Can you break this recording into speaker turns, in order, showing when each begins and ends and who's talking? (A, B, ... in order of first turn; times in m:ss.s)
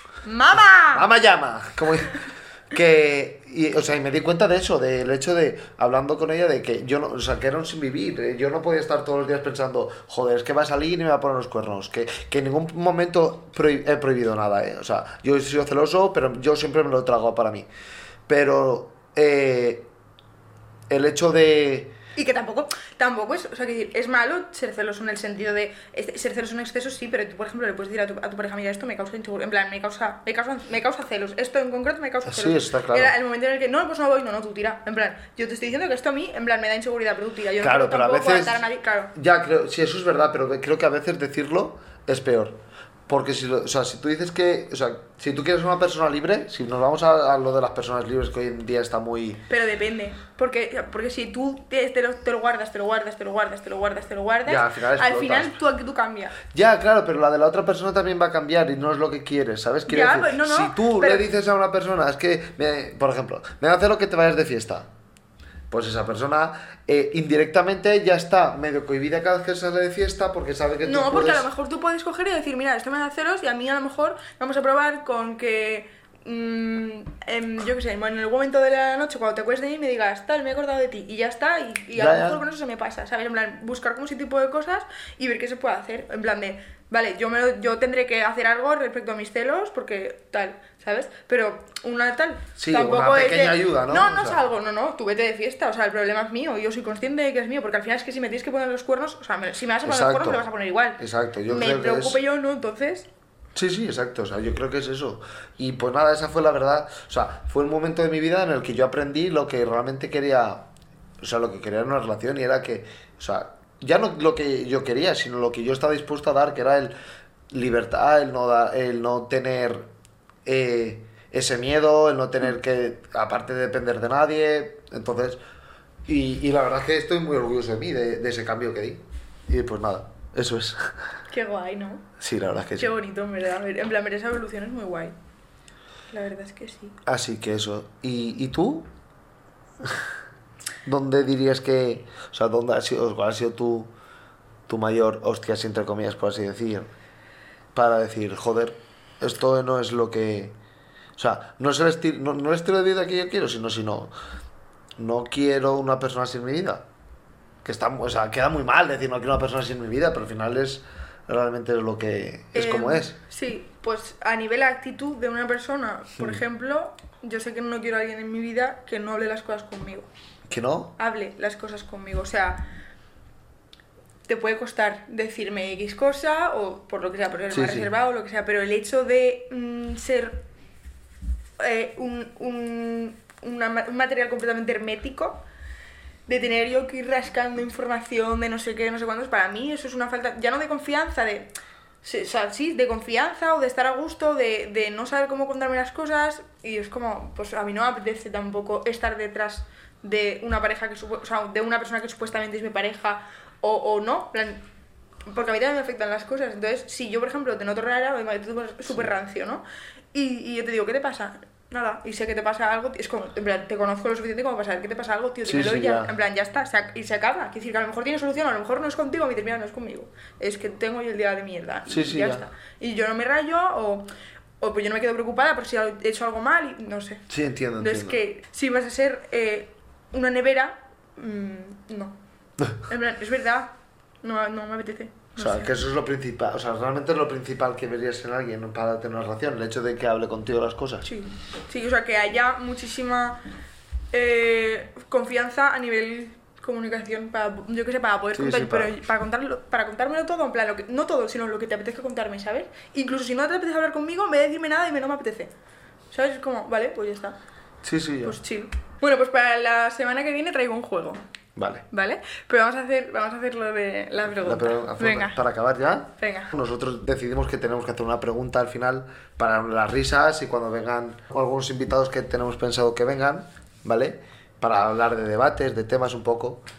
0:00.2-0:01.1 A
0:00.9-0:17.7 B
0:18.3-0:19.9 B
0:20.9-0:22.0 B
0:22.2-0:39.1 A
0:32.2-0:33.1 B
0:37.6-0:38.6 B
0:39.1-0:49.4 B
0:49.5-0:56.4 A
0:54.4-0:55.6 B
0:56.5-1:04.9 B
0:59.9-1:01.3 A
1:05.7-1:11.5 B
1:10.8-1:43.1 A
1:22.0-1:22.4 B
1:32.6-1:34.4 B
1:39.8-1:40.4 B
1:41.0-1:42.2 B
1:43.5-1:50.7 B
1:51.2-1:56.9 B
1:57.5-1:59.9 B
2:00.4-2:05.4 B
2:06.1-2:10.9 B
2:11.3-2:12.1 A
2:12.2-2:12.9 B
2:12.8-2:15.2 A
2:16.1-2:17.0 A
2:17.0-2:18.9 B
2:20.8-2:23.9 B
2:24.7-2:26.9 B
2:27.7-2:30.6 B
2:31.2-2:34.1 B
2:35.0-2:36.8 B
2:37.6-2:43.2 B
2:42.5-2:50.1 A
2:50.5-2:51.0 B
2:51.0-2:52.6 A
2:54.3-3:00.4 A
2:57.5-2:57.9 B
3:01.6-3:05.4 A
3:06.3-3:11.5 A
3:12.0-3:24.6 A
3:25.2-3:44.1 A
3:35.4-3:36.1 B
3:41.9-3:42.4 B
3:44.6-3:47.2 A
3:47.3-3:48.2 B
3:47.8-3:52.2 A
3:52.9-3:55.7 A
3:55.4-4:01.1 B
4:01.0-4:03.4 A
4:04.1-4:15.5 A
4:08.3-4:08.9 B
4:16.1-4:17.4 A
4:17.8-4:18.4 B
4:18.2-4:21.2 A
4:21.6-4:21.8 B
4:21.9-4:25.4 A
4:24.4-4:36.6 B
4:26.2-4:26.5 A